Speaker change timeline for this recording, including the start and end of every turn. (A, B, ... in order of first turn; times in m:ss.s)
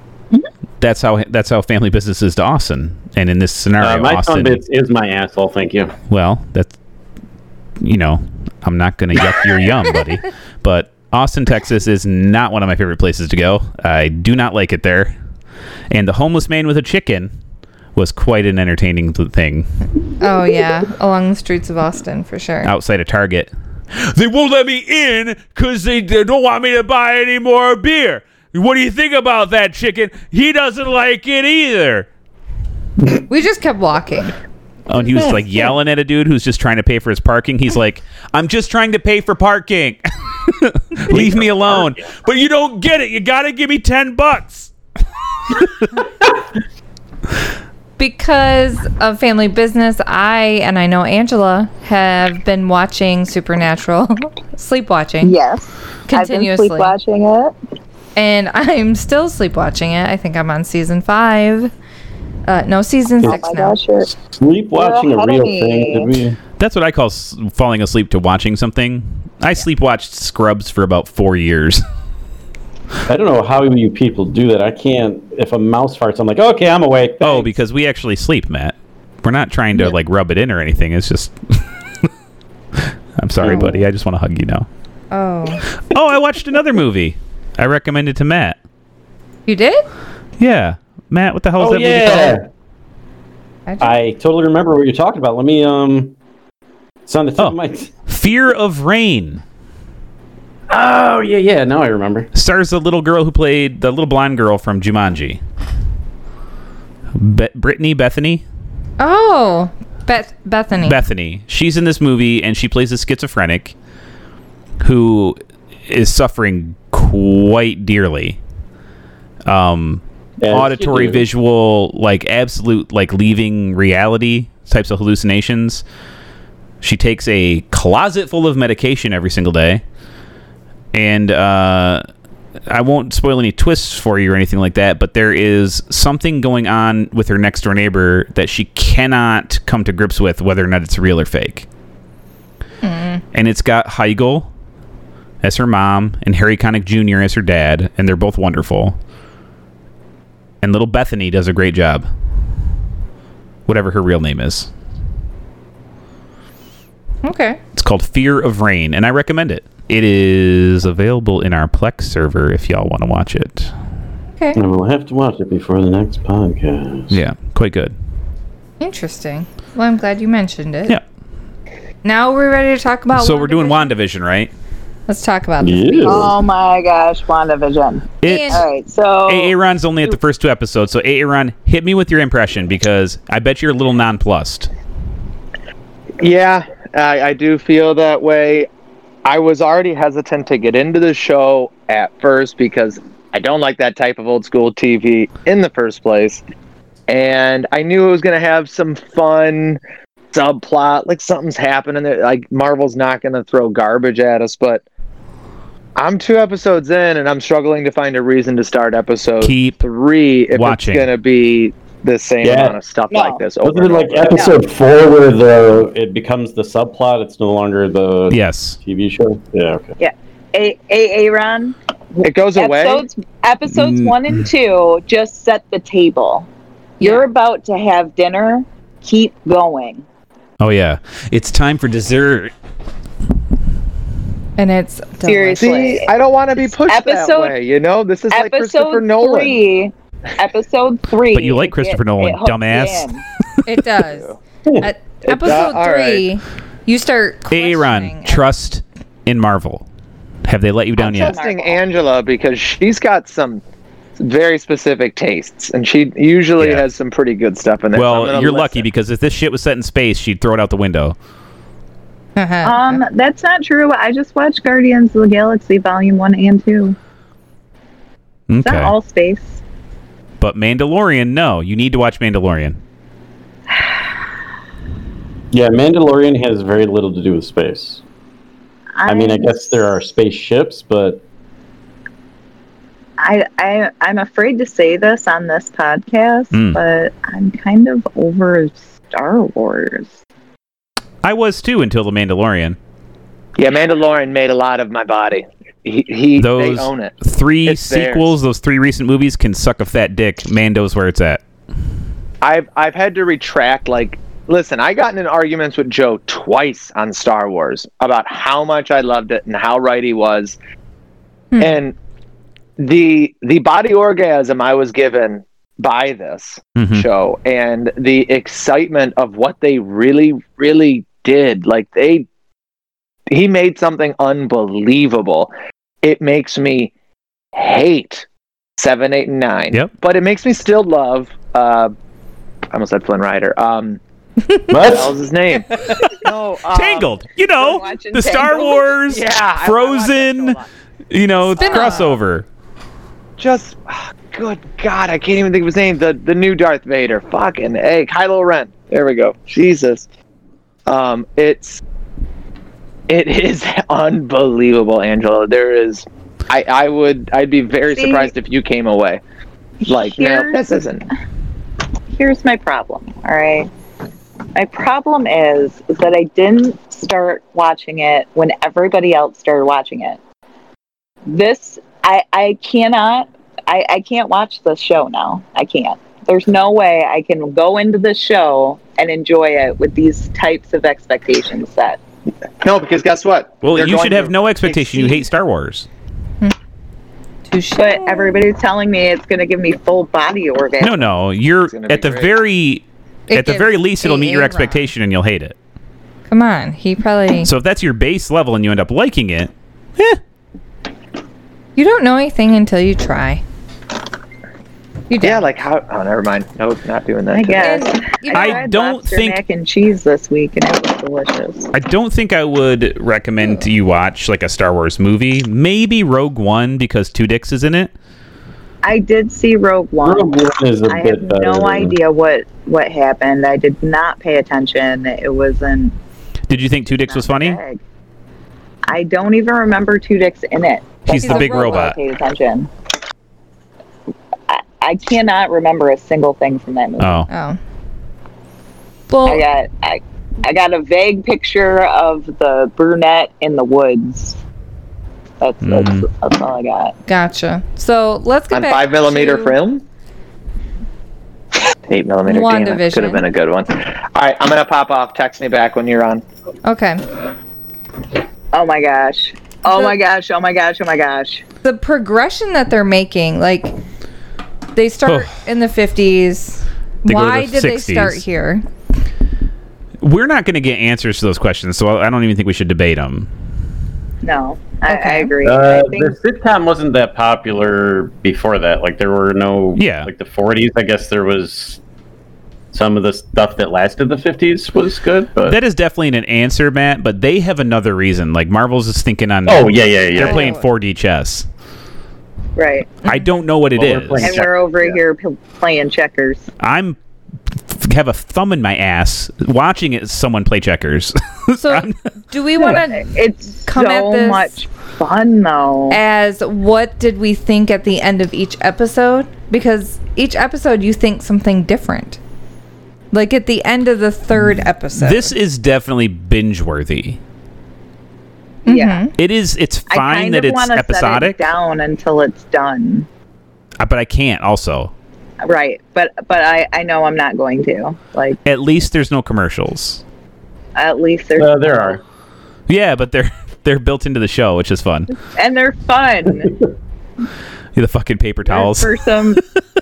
0:00.8-0:04.6 A
0:03.8-0:06.0 B
0:06.1-0:06.7 A
0:07.8-0:15.2 A
0:15.9-0:17.3 A
0:18.0-0:19.7 A
0:20.2-0:22.7 C
0:22.6-0:32.1 A
0:33.3-0:34.3 C
0:34.9-0:44.7 A
0:41.1-0:42.0 B
0:45.5-0:46.0 A
0:48.0-0:55.4 C
0:55.2-0:57.6 D
0:56.1-0:56.9 C
0:58.2-1:01.7 C
1:02.5-1:03.8 C
1:03.2-1:04.1 D
1:04.0-1:06.4 B
1:04.8-1:06.2 D
1:06.6-1:11.8 A
1:13.1-1:17.5 B
1:17.2-1:21.6 A
1:22.8-1:24.7 A
1:23.4-1:23.7 B
1:23.5-1:23.8 C
1:25.1-1:25.6 C
1:25.9-1:28.6 A
1:29.5-1:29.8 C
1:30.4-1:32.4 A
1:31.6-1:32.5 B
1:33.7-1:34.0 C
1:33.8-1:36.2 B
1:37.1-1:37.9 B
1:37.4-1:39.4 A
1:40.7-1:42.3 B
1:42.3-1:45.4 A
1:47.2-1:48.4 A
1:49.0-1:51.0 C
1:50.8-1:53.8 A
1:54.8-1:58.4 A
1:59.5-2:05.8 A
2:00.4-2:01.3 B
2:06.8-2:09.8 A
2:10.9-2:12.0 A
2:12.7-2:21.7 A
2:22.8-2:23.2 C
2:23.3-2:24.5 A
2:25.4-2:29.0 A
2:30.6-2:32.1 A
2:33.7-2:34.7 A
2:37.2-2:37.6 C
2:37.7-2:43.7 A
2:44.6-2:47.2 B
2:47.1-2:47.9 A
2:48.8-2:51.0 C
2:52.0-2:53.9 C
2:53.1-2:54.5 A
2:55.1-2:56.3 C
2:55.6-2:56.4 B
2:56.1-3:00.2 D
2:58.2-2:58.6 A
2:58.2-2:58.6 C
2:59.3-3:04.7 A
3:06.2-3:08.7 E
3:09.2-3:16.4 E
3:17.1-3:19.8 E
3:20.3-3:24.8 E
3:26.0-3:34.5 E
3:29.4-3:29.8 A
3:30.5-3:31.1 A
3:32.4-3:32.8 B
3:33.1-3:33.4 D
3:33.6-3:40.0 B
3:38.3-3:38.8 A
3:40.0-3:46.5 D
3:42.2-3:43.1 E
3:43.8-3:44.2 A
3:47.0-3:47.2 C
3:47.0-3:50.0 D
3:50.6-3:52.5 A
3:54.6-3:56.0 C
3:55.2-3:56.1 D
3:55.6-3:59.6 E
3:56.9-3:57.6 D
3:58.3-4:03.2 D
4:01.3-4:03.1 A
4:03.7-4:08.5 C
4:04.1-4:04.4 E
4:05.2-4:06.3 E
4:07.5-4:09.8 A
4:10.4-4:11.3 A
4:11.0-4:11.8 D
4:11.0-4:13.6 E
4:14.2-4:18.9 E
4:16.6-4:16.8 A
4:17.9-4:21.2 A
4:22.4-4:23.0 C
4:22.6-4:27.0 D
4:28.5-4:28.9 A
4:28.6-4:29.6 D
4:30.4-4:32.8 A
4:33.7-4:34.0 D
4:35.5-4:38.0 B
4:39.0-4:40.0 D
4:39.1-4:41.2 B
4:43.2-4:50.1 D
4:46.5-4:46.8 A
4:51.2-4:52.8 A
4:53.6-4:58.4 E
4:56.4-5:01.4 A
5:02.4-5:10.6 E
5:11.5-5:11.8 C
5:11.6-5:12.0 E
5:12.8-5:22.3 E
5:16.8-5:17.1 A
5:23.3-5:26.9 E
5:27.5-5:28.3 E
5:28.8-5:31.9 E
5:32.7-5:34.0 E
5:34.7-5:35.2 B
5:34.8-5:37.1 E
5:36.7-5:40.6 A
5:37.5-5:39.0 D
5:39.1-5:40.7 E
5:41.1-5:42.5 A
5:41.6-5:42.2 C
5:43.4-5:50.1 E
5:50.9-5:51.8 E
5:53.1-5:59.2 E
5:57.9-5:58.3 D
5:59.8-6:00.6 D
5:59.9-6:01.1 E
6:02.1-6:03.7 D
6:04.6-6:10.2 D
6:11.3-6:22.0 D
6:22.6-6:25.3 E
6:23.6-6:25.9 A
6:27.5-6:28.4 C
6:27.8-6:31.1 D
6:30.8-6:35.6 A
6:31.6-6:32.4 E
6:33.3-6:34.9 C
6:36.3-6:37.5 C
6:37.4-6:40.2 A
6:41.8-6:43.4 C
6:45.1-6:45.5 C
6:45.2-6:47.8 E
6:47.3-6:51.7 D
6:47.6-6:48.7 C
6:48.3-6:49.4 A
6:51.7-6:57.9 A
6:53.4-6:53.7 C
6:58.8-7:06.0 D
7:00.0-7:02.0 B
7:06.5-7:07.6 A
7:06.9-7:07.8 D
7:08.9-7:12.7 D
7:11.1-7:12.0 A
7:11.2-7:11.9 C
7:14.5-7:17.3 D
7:17.0-7:17.3 A
7:17.3-7:17.6 C
7:19.1-7:19.4 C
7:19.3-7:24.4 D
7:25.4-7:27.0 D
7:25.6-7:26.1 A
7:27.1-7:29.6 C
7:28.5-7:29.8 E
7:31.9-7:36.2 E
7:32.3-7:33.2 C
7:36.6-7:37.0 C
7:38.5-7:41.4 D
7:39.7-7:40.0 C
7:41.6-7:43.8 C
7:44.8-7:48.6 C
7:45.1-7:45.3 A
7:47.1-7:48.2 A
7:50.0-7:53.3 A
7:54.2-7:56.2 D
7:54.9-7:55.3 C
7:55.4-8:01.8 B
7:59.8-8:00.1 A
8:02.7-8:05.6 B
8:05.4-8:11.5 A
8:09.5-8:10.5 B
8:10.2-8:10.7 C
8:12.6-8:13.0 D
8:13.0-8:13.3 C
8:13.0-8:14.4 A
8:13.7-8:15.0 B
8:14.2-8:16.5 D
8:16.6-8:17.0 A
8:17.7-8:22.0 A
8:21.6-8:23.1 C
8:22.6-8:26.0 D
8:23.7-8:24.6 C
8:25.9-8:32.2 C
8:33.1-8:35.3 C
8:35.0-8:37.2 A
8:38.6-8:39.1 D
8:38.6-8:39.1 C
8:39.2-8:41.5 A
8:39.9-8:43.1 D
8:43.8-8:44.9 A
8:45.4-8:48.4 D
8:48.5-8:50.0 A
8:50.8-8:52.0 D
8:51.4-8:52.0 B
8:52.7-8:55.1 A
8:55.3-8:56.5 D
8:57.8-8:59.4 A
8:58.4-8:59.4 D